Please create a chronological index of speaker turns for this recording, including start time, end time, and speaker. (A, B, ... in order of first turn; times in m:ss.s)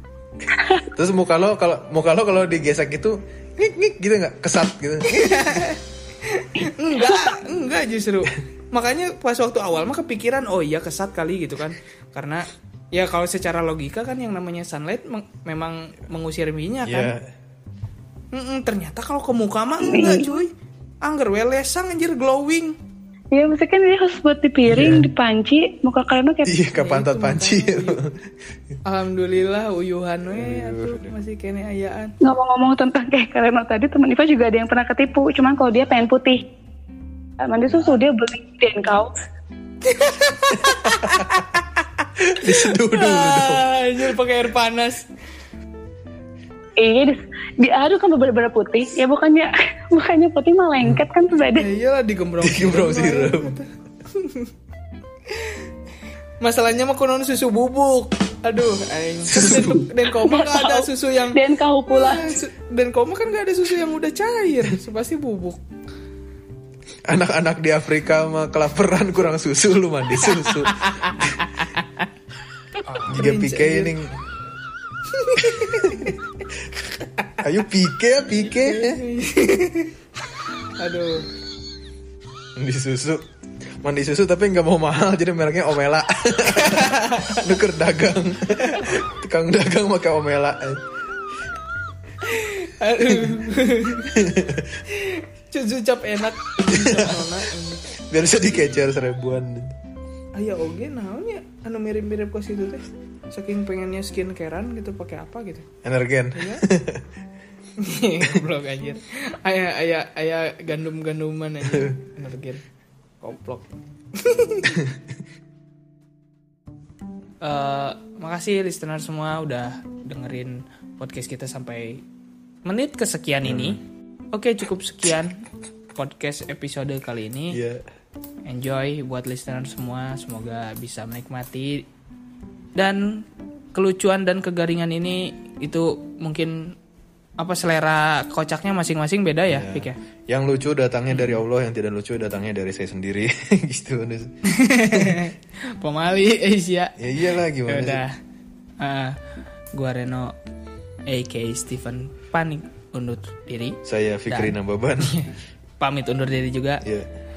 0:00.9-0:05.6 A
0:05.0-0:17.1 B
0:16.8-0:17.3 A
0:18.3-0:22.8 B
0:19.8-0:20.3 C
0:23.3-0:26.6 C
0:24.6-0:25.1 A
0:26.4-0:28.2 A
0:26.7-0:28.0 B
0:28.8-0:32.1 B
0:30.3-0:31.1 A
0:32.2-0:36.4 C
0:37.4-0:39.1 C
0:39.8-0:41.9 B
0:40.6-0:41.4 A
0:42.2-0:43.6 A
0:42.4-0:45.0 B
0:46.8-0:51.6 C
0:51.5-0:54.5 B
0:52.4-0:53.6 A
0:55.3-0:55.6 B
0:56.4-1:05.6 B
0:59.3-0:59.8 A
1:00.2-1:02.2 C
1:07.1-1:11.2 A
1:10.2-1:12.1 B
1:12.8-1:13.9 B
1:13.0-1:14.1 A
1:15.1-1:16.2 B
1:15.5-1:16.1 A
1:17.0-1:17.3 B
1:17.4-1:19.0 A
1:18.4-1:19.9 B
1:20.8-1:21.2 B
1:22.6-1:23.2 A
1:23.8-1:30.8 A
1:26.5-1:27.4 B
1:28.8-1:29.0 B
1:32.2-1:34.2 B
1:34.0-1:34.8 A
1:34.9-1:37.9 B
1:36.7-1:37.3 A
1:38.1-1:39.7 A
1:40.3-1:45.6 B
1:45.8-1:47.0 A
1:46.3-1:46.6 B
1:47.8-1:52.6 B
1:51.6-1:52.0 A
1:53.2-1:54.9 B
1:57.4-2:02.0 B
2:02.6-2:03.8 B
2:03.4-2:03.8 A
2:04.3-2:05.4 B
2:05.9-2:07.6 B
2:07.5-2:07.8 A
2:08.4-2:11.9 B
2:12.8-2:16.8 B
2:17.4-2:20.0 B
2:19.5-2:25.2 A
2:21.1-2:21.4 B
2:24.5-2:27.0 B
2:27.0-2:28.0 A
2:27.7-2:28.1 B
2:28.8-2:29.2 B
2:29.7-2:30.3 B
2:31.1-2:36.8 B
2:33.8-2:35.2 A